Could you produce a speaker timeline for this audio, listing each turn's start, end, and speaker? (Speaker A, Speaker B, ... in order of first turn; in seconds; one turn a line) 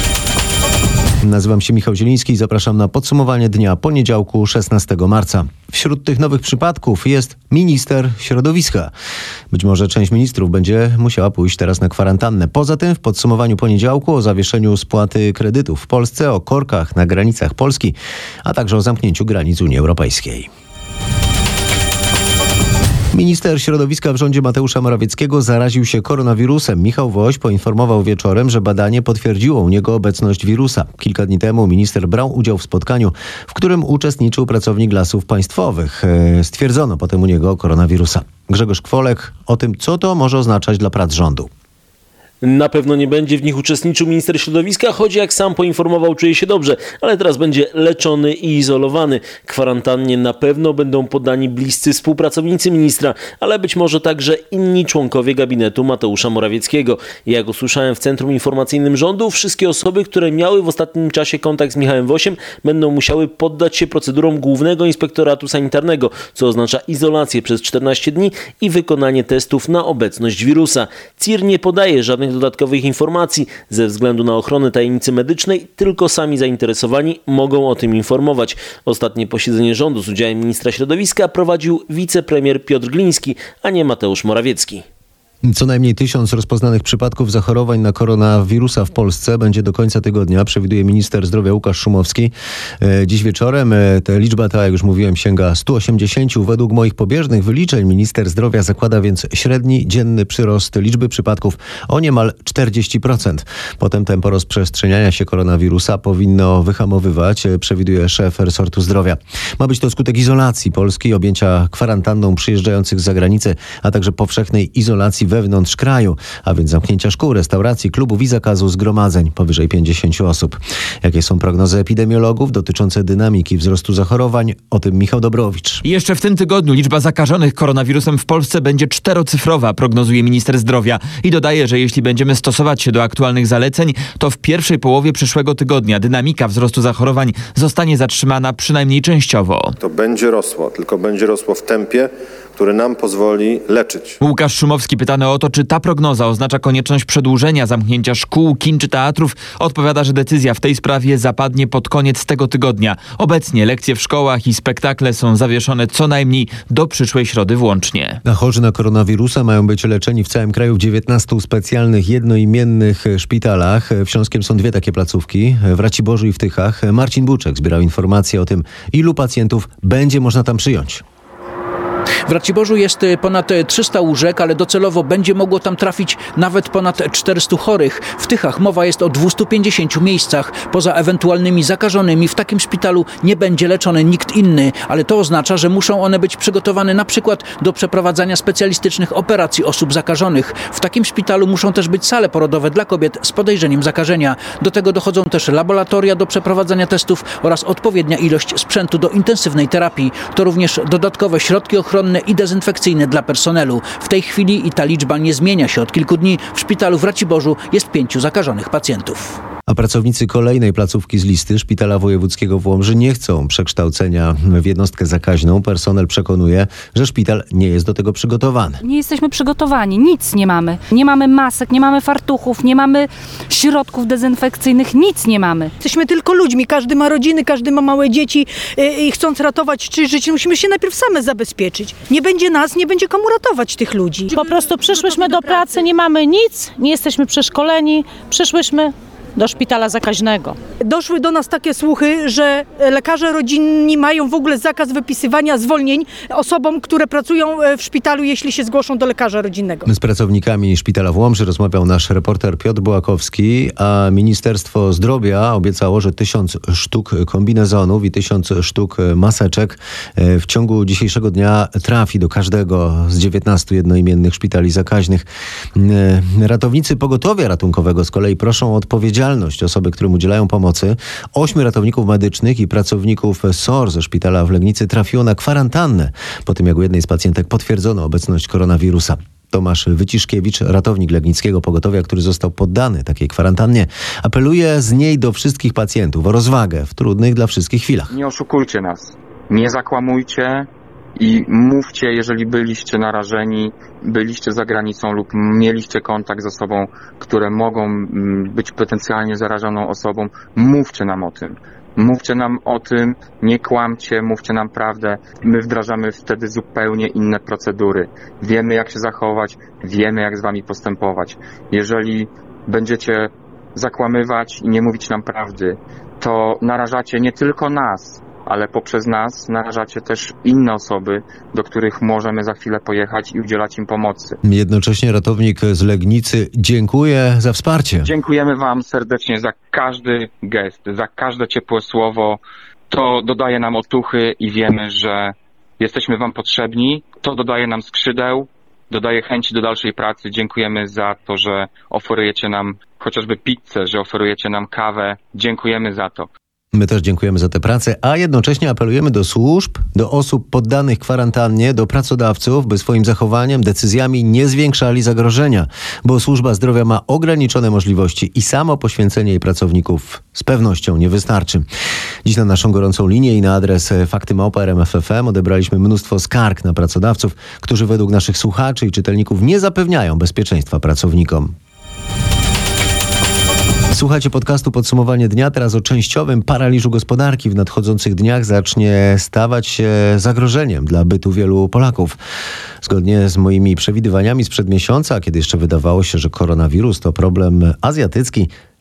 Speaker A: 1.2-8.9
Speaker A: 9.5-20.5
Speaker A: 23.1-41.5
Speaker B: 42.4-84.8
Speaker A: 85.4-125.8
Speaker C: 125.8-139.7
Speaker D: 139.8-144.2
Speaker C: 144.2-158.2
Speaker A: 158.2-171.0
Speaker E: 172.3-209.4
Speaker A: 209.7-218.8
Speaker F: 218.8-225.7
Speaker G: 225.8-235.8
Speaker H: 234.3-240.6
Speaker G: 240.8-249.9
Speaker A: 249.9-288.1
Speaker I: 288.1-324.4
Speaker A: 324.4-328.1
Speaker I: 328.0-346.3
Speaker A: 346.7-361.6
Speaker A: 362.2-371.6
Speaker A: 373.9-382.2
Speaker A: 382.8-388.5